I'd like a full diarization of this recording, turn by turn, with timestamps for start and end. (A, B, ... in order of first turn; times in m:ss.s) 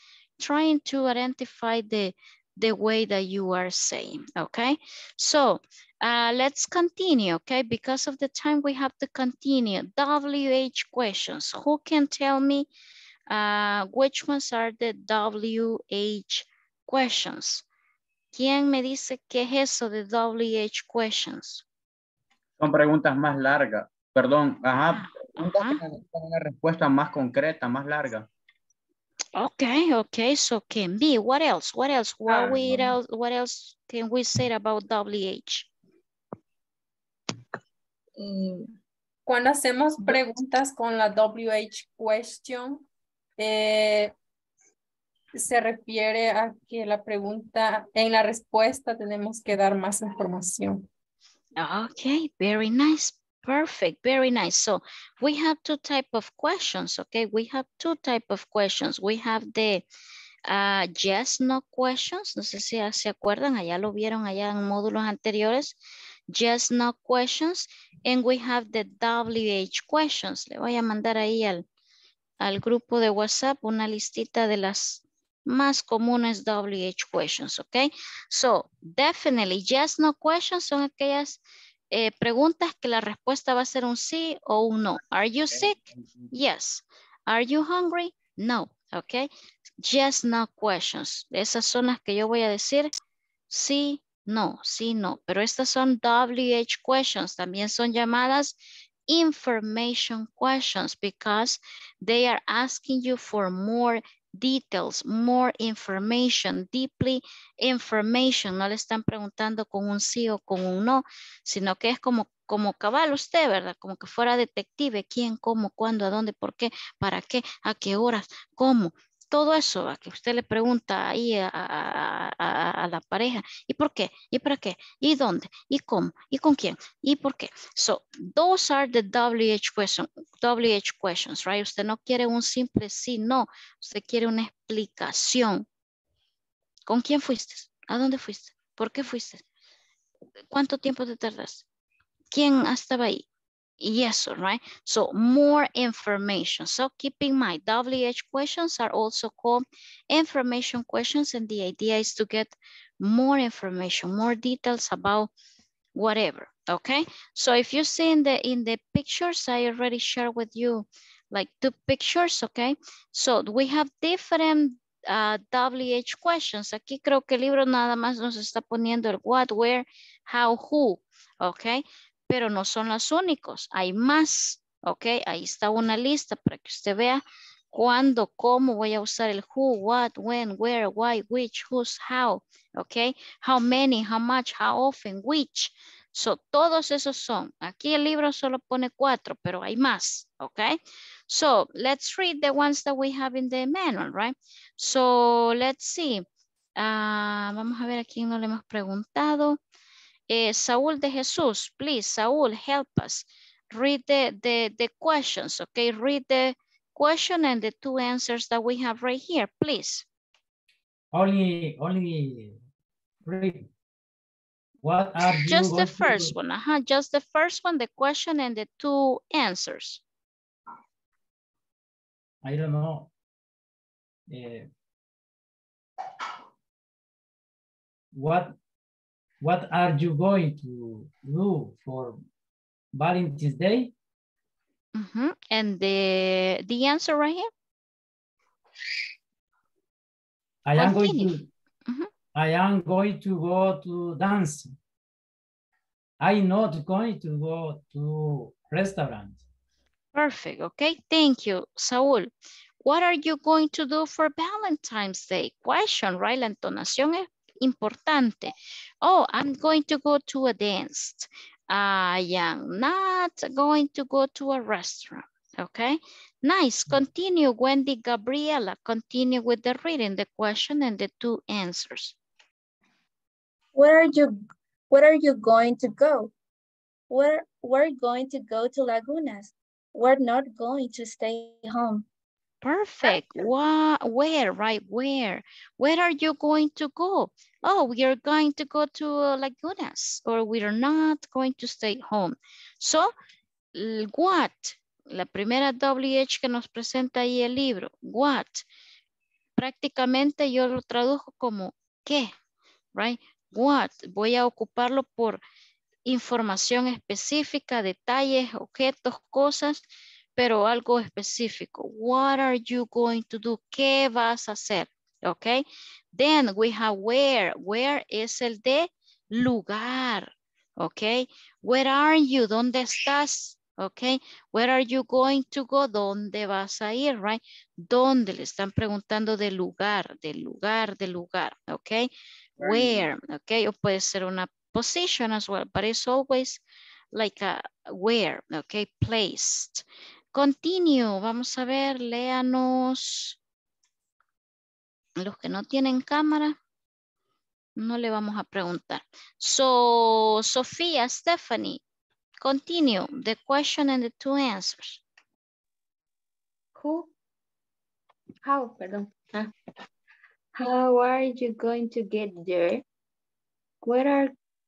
0:00.4-0:12.7 A
0:13.3-0:17.6 A
0:18.3-0:21.6 A
0:22.6-0:28.3 B
0:24.9-0:25.8 A
0:29.4-0:35.7 A
0:39.3-0:42.8 C
0:43.4-0:44.1 C
0:45.4-0:50.9 C
0:51.6-0:59.8 A
1:00.5-1:05.8 A
1:06.3-1:11.6 A
1:12.4-1:21.4 A
1:21.9-1:25.8 A
1:26.3-1:29.3 A
1:29.8-1:32.9 A
1:33.5-1:38.6 A
1:39.1-2:15.7 A
2:16.9-2:19.4 A
2:20.5-2:21.6 A
2:22.3-2:23.3 A
2:23.8-2:35.3 A
2:36.0-3:16.2 A
3:16.8-3:19.6 A
3:20.3-3:30.1 A
3:31.1-3:32.6 D
3:33.2-3:33.7 D
3:34.8-3:36.4 D
3:35.3-3:40.0 A
3:42.4-3:43.1 D
3:44.3-3:44.7 D
3:48.1-3:48.6 D
3:49.4-3:52.2 D
3:52.9-3:53.9 D
3:55.0-3:57.5 A
4:00.7-4:01.5 D
4:00.8-4:02.1 A
4:02.4-4:04.7 D
4:06.2-4:09.4 D
4:10.1-4:12.3 A
4:12.8-4:32.2 A
4:33.8-4:34.4 E
4:34.9-4:36.3 E
4:37.1-4:42.0 E
4:42.6-4:53.1 A
4:53.8-4:58.6 A
4:59.6-5:02.3 A
5:03.0-5:05.4 A
5:06.1-5:09.8 A
5:10.4-5:36.6 A
5:37.1-5:43.4 A
5:45.2-5:46.6 A
5:47.8-5:51.8 A
5:52.4-5:55.0 A
5:56.8-5:57.1 F
5:58.4-5:59.5 F
6:00.6-6:02.8 F
6:03.8-6:04.3 F